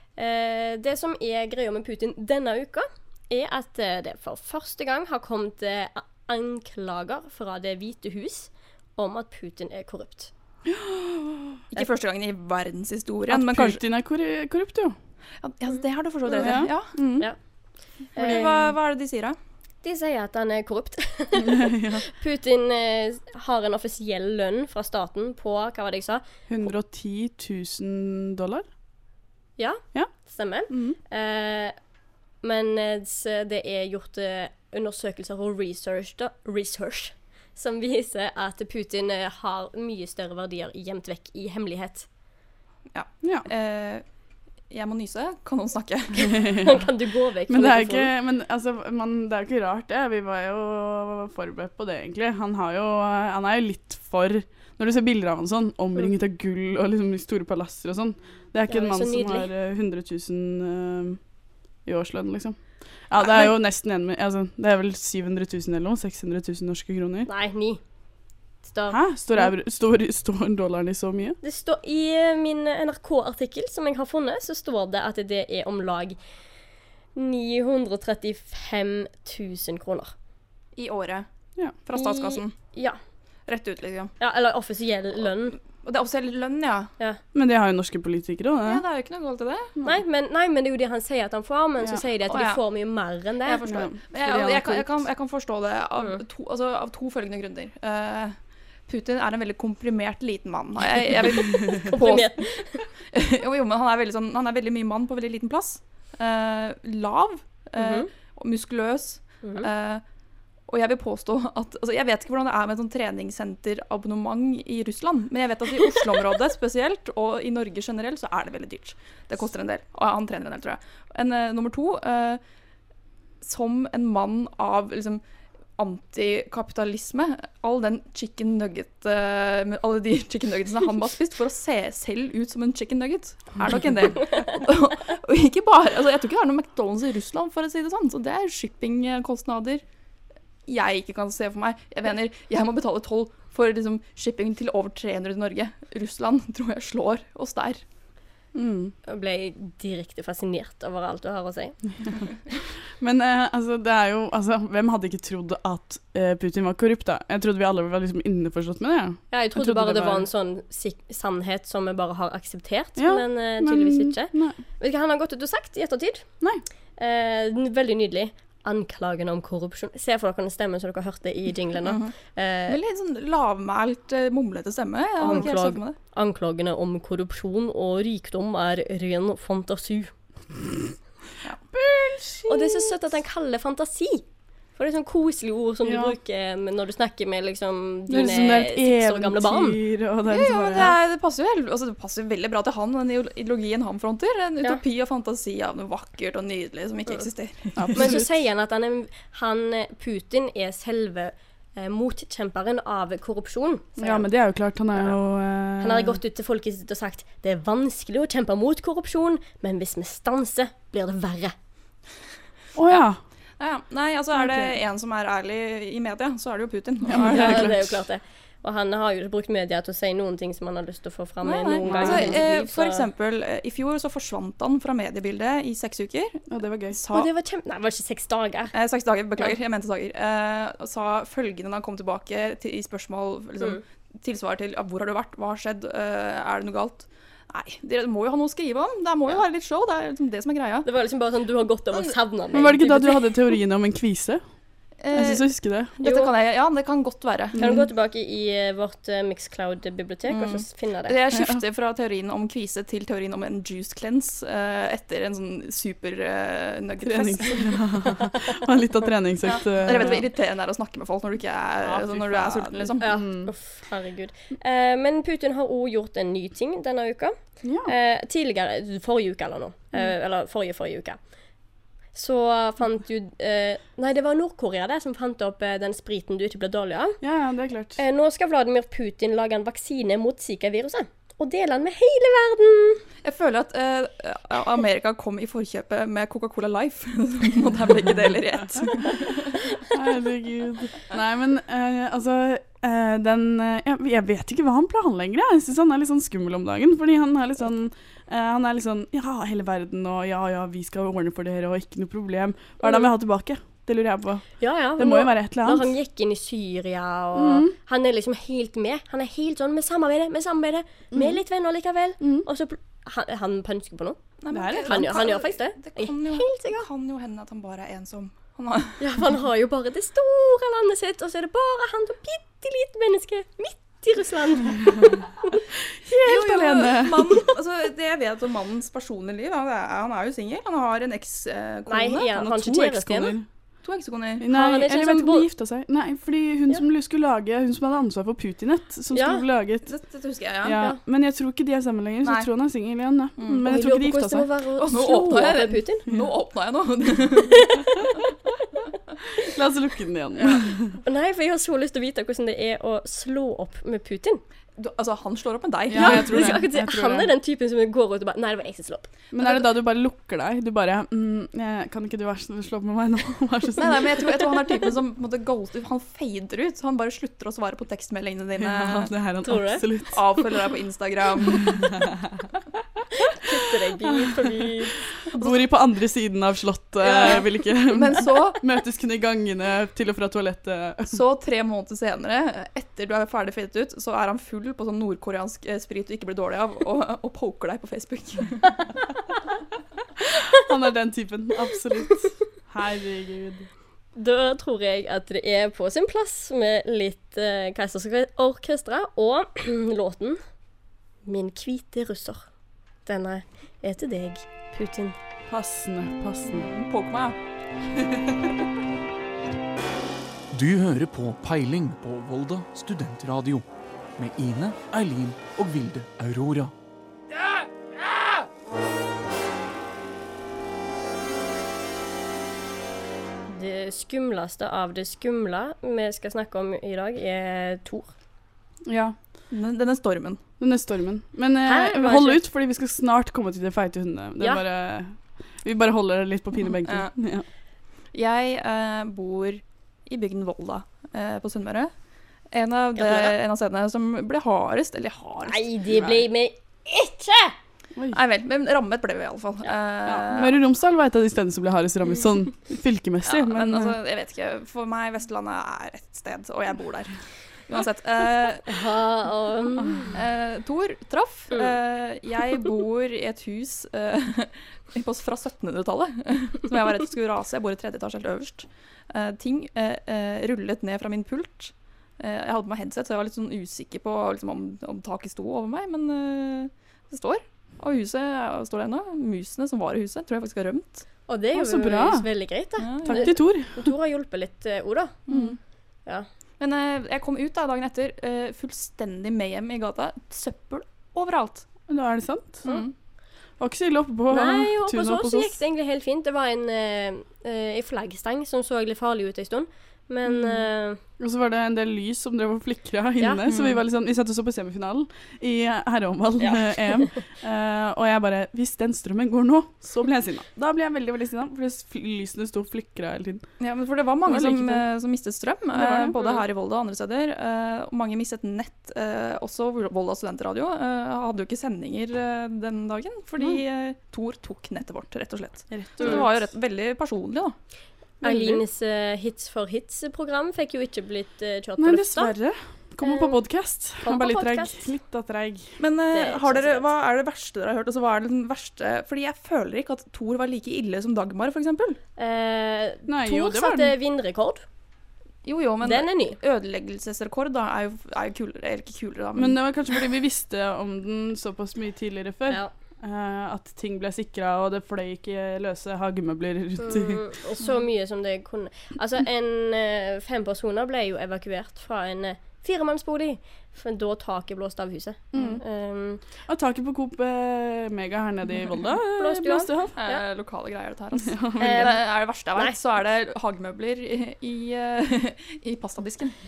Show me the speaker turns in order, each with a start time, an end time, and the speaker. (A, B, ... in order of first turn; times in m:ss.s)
0:00.2-0:10.3 A
0:10.7-0:11.6 B
0:11.7-0:13.8 C
0:13.3-0:15.0 B
0:15.4-0:17.0 C
0:16.3-0:16.6 A
0:16.4-0:17.3 B
0:18.2-0:18.5 A
0:18.2-0:18.6 B
0:18.2-0:19.4 C
0:19.8-0:26.2 A
0:21.4-0:22.0 B
0:26.5-0:28.7 B
0:29.6-0:31.8 A
0:30.7-0:31.0 B
0:32.4-0:42.1 A
0:42.9-0:44.0 C
0:44.7-0:46.6 C
0:46.3-0:46.8 B
0:46.6-0:48.1 A
0:47.5-1:01.2 B
0:58.7-0:59.5 A
1:01.8-1:02.6 B
1:03.1-1:07.3 B
1:07.3-1:07.8 A
1:08.6-1:09.0 A
1:08.9-1:11.4 B
1:11.4-1:16.2 A
1:17.2-1:20.1 A
1:20.8-1:21.3 C
1:21.9-1:22.5 C
1:21.9-1:23.0 A
1:23.5-1:24.1 C
1:24.2-1:25.6 A
1:25.8-1:26.9 C
1:27.3-1:28.8 B
1:28.6-1:29.7 C
1:29.8-1:33.9 A
1:32.3-1:32.6 C
1:33.5-1:38.4 C
1:33.7-1:35.0 B
1:38.9-1:42.5 C
1:41.8-1:42.9 A
1:43.1-1:50.0 C
1:47.8-1:48.1 A
1:50.7-2:02.4 C
2:03.4-2:05.2 C
2:05.8-2:19.8 C
2:20.7-2:27.8 C
2:28.6-2:28.9 B
2:29.1-2:31.8 A
2:33.0-2:40.3 B
2:39.3-2:46.2 A
2:43.0-2:44.6 B
2:47.0-2:52.8 A
2:51.8-2:52.1 C
2:52.7-2:56.0 C
2:55.2-3:00.1 A
3:01.7-3:02.9 B
3:02.5-3:04.2 A
3:04.8-3:09.8 A
3:05.8-3:06.2 B
3:08.1-3:11.0 B
3:10.3-3:18.2 C
3:17.8-3:18.3 B
3:17.9-3:24.2 A
3:24.0-3:26.2 B
3:25.8-3:31.6 A
3:32.8-3:33.2 B
3:33.6-3:37.7 C
3:34.4-3:34.7 B
3:37.1-3:38.0 B
3:37.3-3:43.0 A
3:41.4-3:47.3 C
3:41.8-3:42.4 B
3:46.5-3:47.0 B
3:47.1-3:48.7 A
3:48.7-4:00.9 C
4:00.8-4:03.3 A
4:02.5-4:04.4 B
4:05.0-4:07.7 C
4:05.1-4:05.9 B
4:06.0-4:06.3 A
4:07.5-4:07.8 B
4:07.6-4:11.2 A
4:10.3-4:17.8 C
4:11.3-4:11.6 B
4:17.0-4:20.2 B
4:19.5-4:23.1 C
4:21.8-4:23.5 B
4:23.0-4:31.2 A
4:27.6-4:27.9 B
4:32.2-4:37.2 A
4:37.2-4:38.0 B
4:38.0-4:43.0 A
4:43.2-4:49.6 C
4:49.9-5:04.4 B
5:04.6-5:14.2 A
5:05.0-5:05.9 B
5:07.4-5:07.7 B
5:12.2-5:12.5 B
5:14.4-5:19.0 C
5:14.5-5:15.1 B
5:14.8-5:16.9 A
5:19.0-5:25.6 A
5:25.9-5:27.5 B
5:26.2-5:32.3 C
5:31.9-5:33.4 A
5:32.4-5:33.5 B
5:33.8-5:34.5 C
5:34.4-5:39.9 B
5:34.5-5:35.5 A
5:39.1-5:39.4 A
5:39.9-5:40.8 C
5:40.6-5:44.5 B
5:43.4-5:43.7 C
5:43.5-5:46.0 A
5:44.8-5:47.8 C
5:49.4-5:51.0 B
5:51.0-5:54.4 A
5:54.8-5:56.6 C
5:55.9-5:57.3 B
5:56.0-5:59.1 A
5:59.3-6:04.3 B
5:59.4-5:59.7 C
6:03.8-6:09.1 C
6:08.6-6:10.2 B
6:09.4-6:09.8 A
6:10.1-6:11.9 C
6:11.7-6:12.2 B
6:13.4-6:15.0 A
6:15.3-6:21.2 B
6:15.3-6:15.6 C
6:17.0-6:18.6 C
6:21.1-6:28.8 C
6:30.3-6:33.7 B
6:34.2-6:40.4 A
6:41.3-6:42.5 A
6:43.1-6:45.2 A
6:45.5-6:46.7 B
6:46.5-6:47.4 C
6:48.0-6:48.5 B
6:50.5-6:53.6 D
6:54.2-6:56.7 D
7:03.5-7:08.1 A
7:08.9-7:09.2 B
7:09.5-7:10.4 C
7:10.6-7:17.5 B
7:11.6-7:12.4 A
7:16.8-7:17.1 C
7:18.1-7:21.9 C
7:22.5-7:25.7 C
7:23.0-7:23.3 A
7:25.4-7:27.6 A
7:28.1-7:30.6 C
7:30.1-7:34.0 B
7:33.2-7:37.2 C
7:37.7-7:38.7 C
7:38.7-7:40.2 A
7:40.1-8:01.0 C
8:01.3-8:05.2 A
8:01.5-8:02.3 B
8:02.8-8:03.3 C
8:03.1-8:03.8 B
8:05.3-8:05.6 C
8:06.6-8:11.7 C
8:11.9-8:12.6 B
8:12.6-8:12.9 C
8:13.6-8:15.6 B
8:14.3-8:21.0 A
8:20.3-8:20.6 B
8:21.2-8:33.5 B
8:23.5-8:23.7 C
8:33.6-8:47.5 C
8:34.3-8:34.9 B
8:35.7-8:36.2 B
8:45.7-8:46.3 B
8:48.2-8:52.3 A
8:51.8-8:55.8 B
8:53.0-8:53.4 A
8:54.0-8:54.9 A
8:55.8-9:02.0 C
8:56.1-8:56.9 A
9:02.2-9:04.6 A
9:03.1-9:03.9 B
9:05.4-9:09.6 C
9:05.8-9:06.4 A
9:09.4-9:17.2 B
9:16.8-9:26.2 A
9:25.3-9:25.6 B
9:26.5-9:30.0 B
9:29.2-9:30.2 A
9:30.0-9:36.4 C
9:31.2-9:31.9 B
9:31.6-9:32.0 A